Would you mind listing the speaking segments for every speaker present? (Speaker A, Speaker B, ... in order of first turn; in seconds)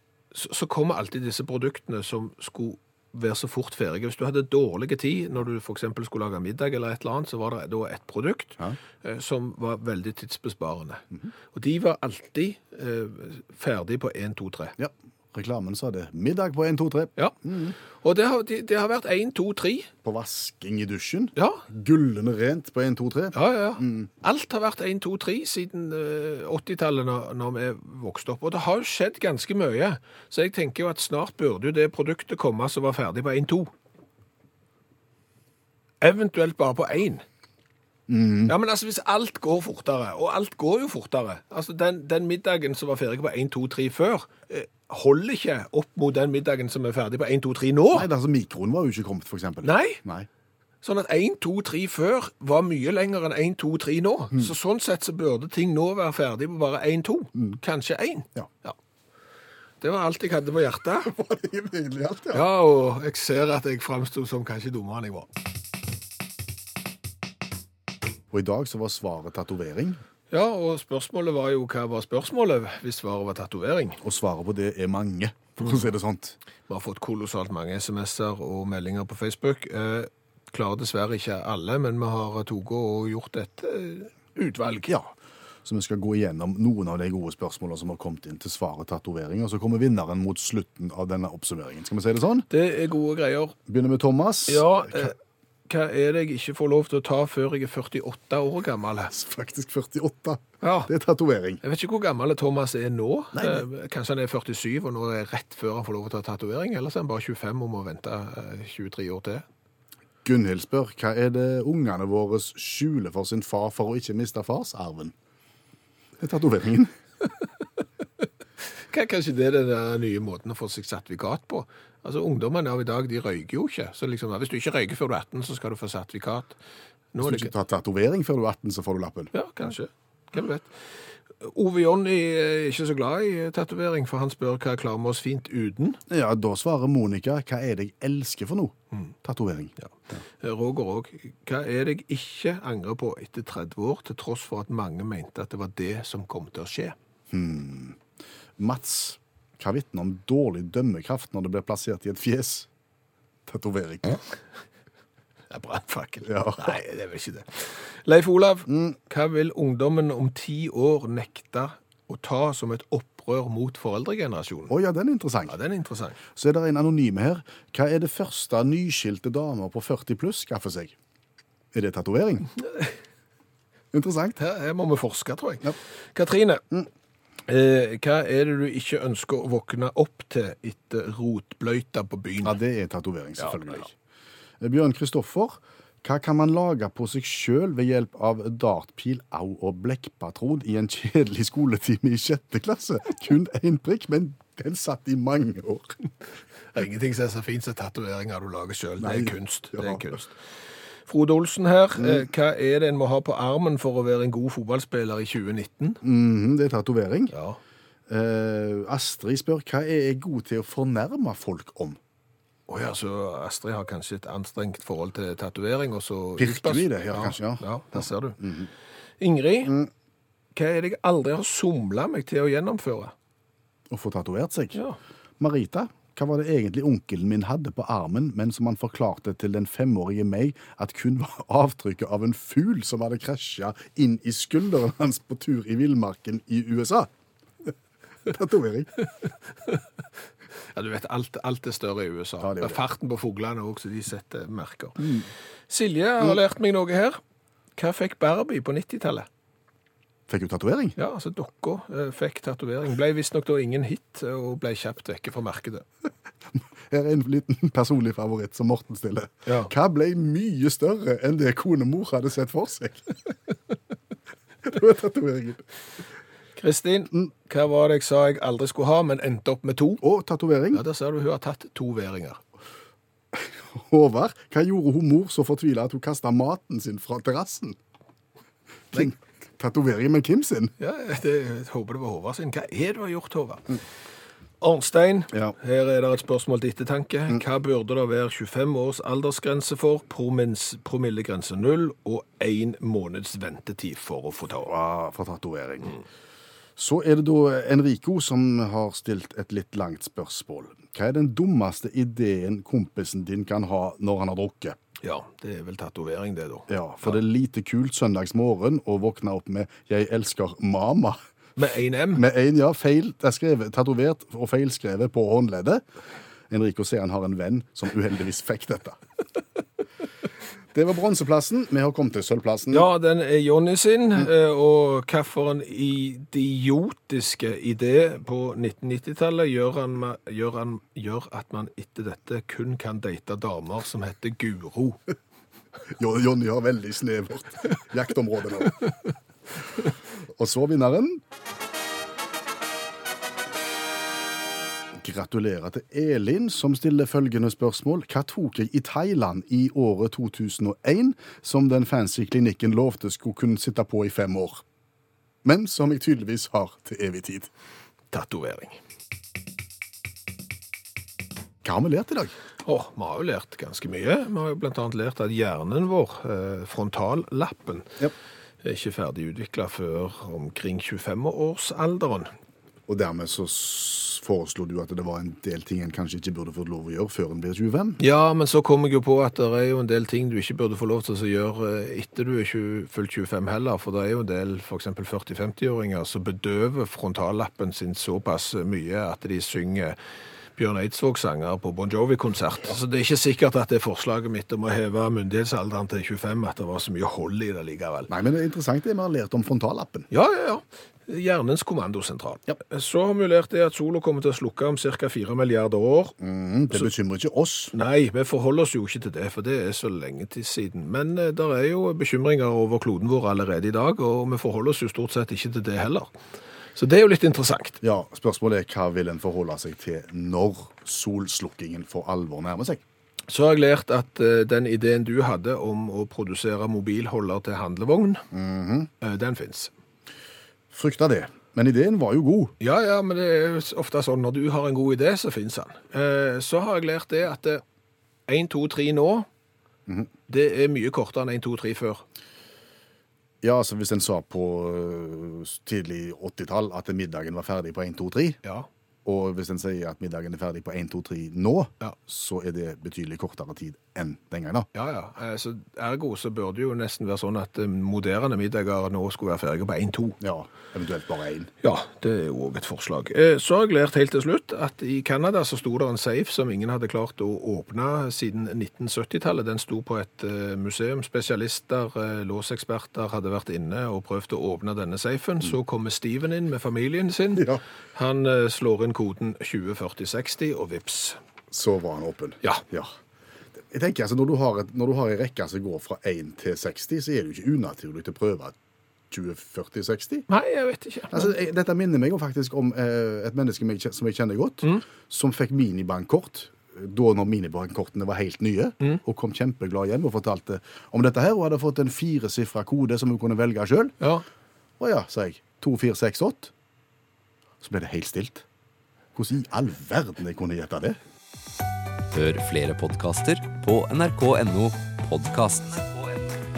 Speaker A: 0.3-14.8, 17.9-19.9, 21.4-21.6, 23.3-33.7, 36.0-37.2, 38.5-48.1, 49.6-50.0, 50.8-58.8, 59.8-61.1, 62.3-65.3, 70.3-74.0, 76.7-84.9, 92.5-93.6, 94.5-95.2, 95.7-99.1, 100.6-100.9, 101.6-109.5, 118.8-126.6, 127.1-127.5, 129.3-136.0, 140.4-146.9, 155.5-164.8, 165.5-166.2, 172.6-172.9, 174.4-176.6, 177.5-182.6, 183.4-183.9, 196.7-200.4, 201.1-206.0, 207.3-207.6, 212.7-218.4, 219.2-219.8, 220.6-223.1, 240.7-247.2, 247.8-249.3, 251.0-255.9, 259.5-259.7, 266.6-270.0, 270.7-272.4, 280.8-283.8, 284.6-294.7, 305.0-307.1, 311.6-312.2, 322.7-335.0, 358.1-358.8, 362.6-368.0, 368.6-372.3, 378.0-390.0, 390.6-398.1, 400.1-406.1, 407.7-416.2, 416.8-417.8, 423.3-428.3, 429.0-429.7, 432.6-437.6, 438.3-439.3, 440.3-442.0, 454.7-460.2, 461.6-481.2, 490.3-491.3
Speaker B: 14.8-17.8, 20.0-24.1, 38.1-38.5, 47.9-50.3, 61.0-62.5, 68.3-70.0, 74.0-76.4, 84.9-85.1, 85.7-92.5, 93.7-95.0, 99.1-101.6, 103.3-103.6, 110.2-115.1, 116.2-116.9, 127.2-129.3, 136.1-140.2, 147.3-148.0, 148.6-152.7, 153.5-154.2, 156.2-156.8, 158.7-159.0, 164.7-165.6, 166.3-170.9, 171.7-172.5, 173.9-174.4, 182.4-183.9, 184.6-196.0, 199.0-200.1, 202.0-202.3, 206.0-207.3, 208.1-212.0, 216.4-218.7, 219.7-219.9, 223.9-224.8, 225.4-237.1, 238.3-238.9, 242.4-242.8, 245.0-245.2, 250.3-251.0, 256.5-263.1, 264.6-265.6, 270.0-270.8, 273.3-277.8, 278.9-280.7, 294.6-296.0, 296.8-304.8, 306.7-311.2, 312.1-315.8, 316.5-319.0, 320.7-322.9, 336.0-338.8, 340.2-341.2, 344.9-354.6, 355.4-357.5, 361.6-362.4, 372.9-378.0, 398.1-400.1, 406.2-407.7, 417.8-422.8, 428.3-428.9, 430.7-432.5, 443.4-448.4, 449.1-454.7, 460.2-461.5, 481.5-482.9, 483.6-488.6, 489.1-490.3, 491.1-504.0, 504.8-506.5, 507.6-508.5, 509.1-511.0
Speaker C: 512.1-516.2